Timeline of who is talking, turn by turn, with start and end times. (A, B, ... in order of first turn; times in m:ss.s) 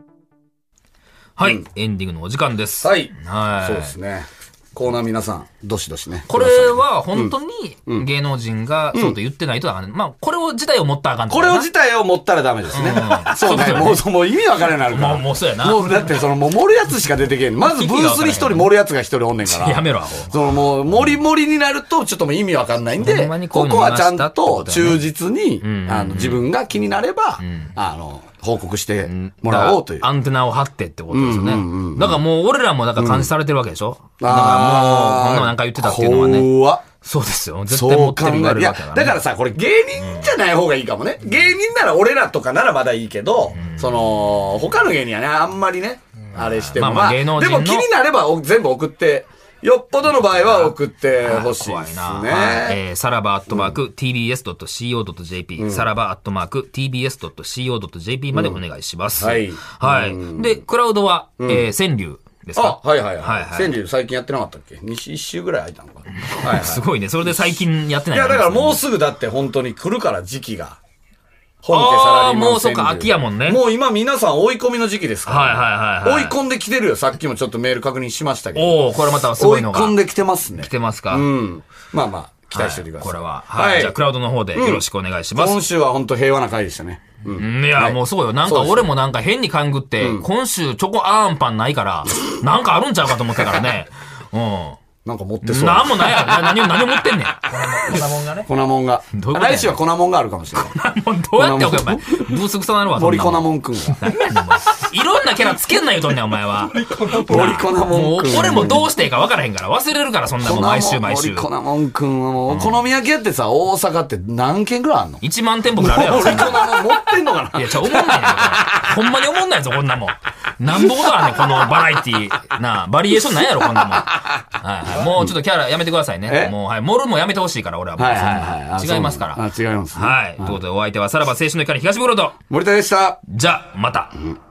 0:01.4-0:03.9 A
0:02.8-0:07.3 B
0:06.3-0:11.7 A
0:11.3-0:30.1 B
0:12.7-0:14.0 A
0:14.9-0:16.0 A
0:17.6-0:18.7 A
0:19.5-0:20.3 A
0:23.0-0:25.0 A
0:25.6-0:26.4 A
0:27.4-0:27.7 A
0:29.1-0:39.2 A
0:31.1-0:32.2 B
0:33.0-0:33.3 B
0:34.2-0:36.8 B
0:37.7-0:52.8 B
0:43.5-0:44.5 A
0:46.3-0:47.9 A
0:50.2-1:03.7 A
0:53.5-0:53.7 B
0:55.6-0:55.9 B
0:58.3-0:58.6 B
0:59.2-1:00.6 B
1:01.4-1:01.6 B
1:02.6-1:06.8 B
1:06.2-1:08.8 A
1:08.1-1:10.8 B
1:11.6-1:18.8 B
1:11.7-1:13.6 A
1:15.2-1:16.4 A
1:18.5-1:20.0 A
1:19.4-1:24.0 B
1:20.6-1:21.3 A
1:22.5-1:25.6 A
1:24.5-1:24.8 B
1:25.3-1:28.9 B
1:27.4-1:34.8 A
1:30.0-1:30.3 B
1:35.0-1:36.4 B
1:35.4-1:37.4 A
1:37.4-1:38.5 C
1:38.4-1:40.8 B
1:39.1-1:39.8 A
1:40.7-1:51.5 A
1:41.4-1:42.4 B
1:42.9-1:44.0 B
1:46.7-1:47.7 C
1:47.2-1:48.9 B
1:50.4-1:55.2 B
1:52.5-1:52.8 A
1:55.2-1:56.8 A
1:55.8-1:58.9 B
1:57.5-2:09.4 A
2:00.8-2:01.5 B
2:03.9-2:04.1 B
2:05.0-2:05.3 B
2:06.3-2:06.5 B
2:08.0-2:10.6 B
2:09.9-2:12.4 A
2:12.5-2:13.2 B
2:13.2-2:14.2 A